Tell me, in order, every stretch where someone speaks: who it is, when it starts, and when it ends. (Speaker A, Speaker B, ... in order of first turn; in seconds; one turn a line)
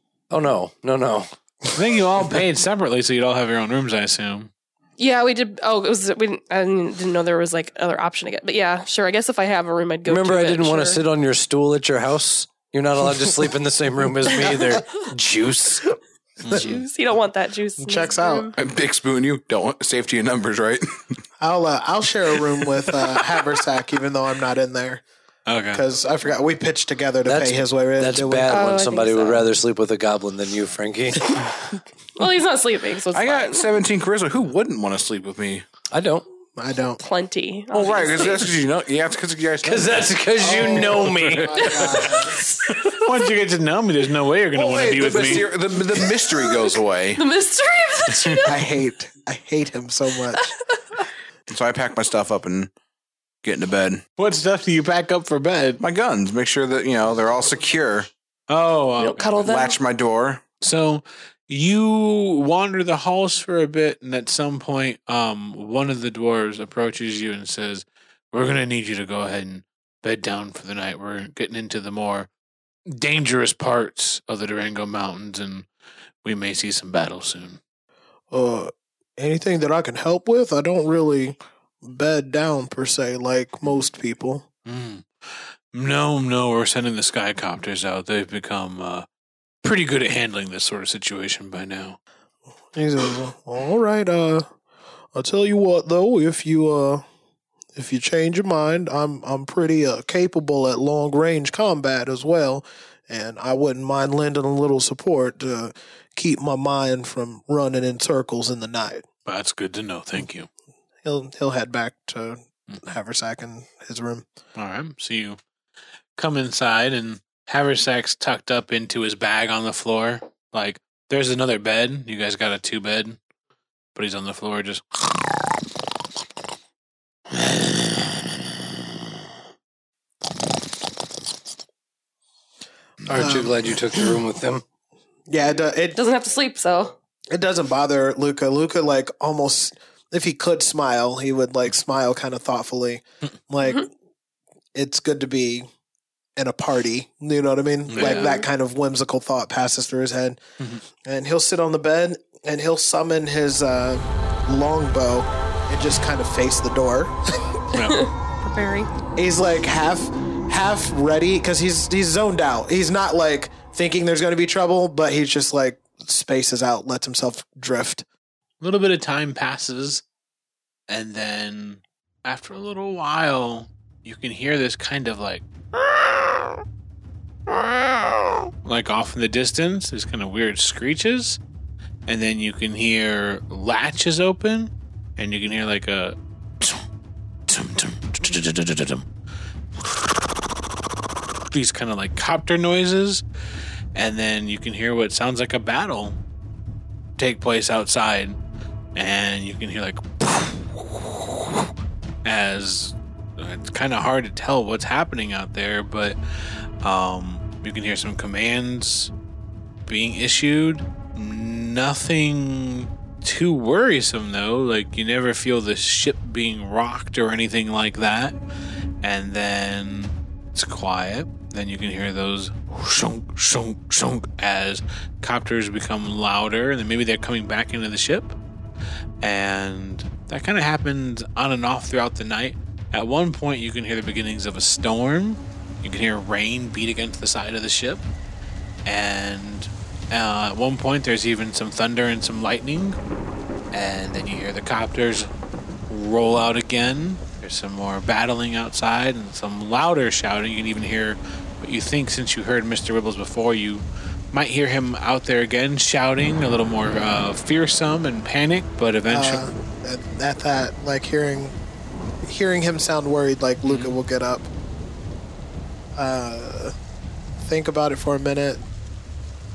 Speaker A: 0.3-1.3
Speaker B: 1.7-4.5
Speaker C: 5.0-11.0
Speaker A: 10.1-16.0
Speaker C: 14.4-15.0
Speaker B: 16.4-16.8
Speaker C: 16.5-18.6
Speaker D: 17.8-18.5
Speaker E: 18.6-21.0
Speaker D: 21.4-25.0
Speaker B: 25.5-25.8
Speaker D: 25.7-28.7
Speaker A: 27.2-31.4
Speaker C: 28.5-29.5
Speaker C: 32.2-33.7
Speaker E: 33.1-35.6
Speaker A: 35.9-36.3
Speaker D: 36.6-37.0
Speaker C: 37.0-38.6
Speaker E: 37.7-40.3
Speaker A: 39.6-41.7
Speaker D: 40.4-42.4
Speaker B: 40.8-42.0
Speaker C: 41.5-43.0
Speaker B: 42.6-45.5
Speaker E: 44.5-47.2
Speaker C: 46.5-48.6
Speaker D: 48.5-50.5
Speaker C: 50.4-51.0
Speaker E: 51.5-52.7
Speaker E: 53.4-54.0
Speaker B: 54.2-55.8
Speaker E: 55.8-58.1
Speaker B: 58.5-59.3
Speaker C: 59.0-59.8
Speaker E: 59.4-60.4
Speaker B: 60.6-72.3
Speaker B: 72.9-75.7
Speaker B: 76.2-77.6
Speaker D: 78.3-84.5
Speaker B: 84.7-89.1
Speaker B: 89.6-92.0
Speaker D: 92.7-94.5
Speaker D: 95.1-97.0
Speaker D: 97.8-109.0
Speaker B: 109.3-110.5
Speaker D: 111.0-114.3
Speaker B: 114.6-115.4
Speaker B: 116.2-123.2
Speaker B: 124.0-125.3
Speaker B: 127.3-128.4
Speaker A: 133.1-134.6
Speaker B: 133.1-133.4
Speaker D: 133.1-133.7
Speaker D: 135.3-136.0
Speaker C: 135.9-136.9
Speaker D: 137.3-143.9
Speaker D: 144.8-145.7
Speaker D: 146.4-150.4
Speaker B: 147.9-148.3
Speaker C: 148.0-148.5
Speaker D: 151.0-157.3
Speaker B: 157.7-158.1
Speaker C: 157.8-158.9
Speaker D: 159.2-168.1
Speaker B: 168.6-170.0
Speaker B: 170.9-176.6
Speaker B: 177.5-181.4
Speaker B: 182.1-186.8
Speaker B: 187.5-189.1
Speaker B: 191.5-193.2
Speaker B: 193.9-196.2
Speaker B: 197.2-198.4
Speaker B: 198.9-201.7
Speaker B: 202.2-206.2
Speaker B: 206.8-209.1
Speaker B: 209.9-218.4
Speaker B: 219.0-228.4
Speaker B: 229.2-238.0
Speaker B: 238.8-243.0
Speaker B: 243.7-245.3
Speaker B: 245.9-259.4
Speaker D: 259.1-261.6
Speaker D: 262.2-264.5
Speaker D: 266.0-266.8
Speaker D: 267.4-268.6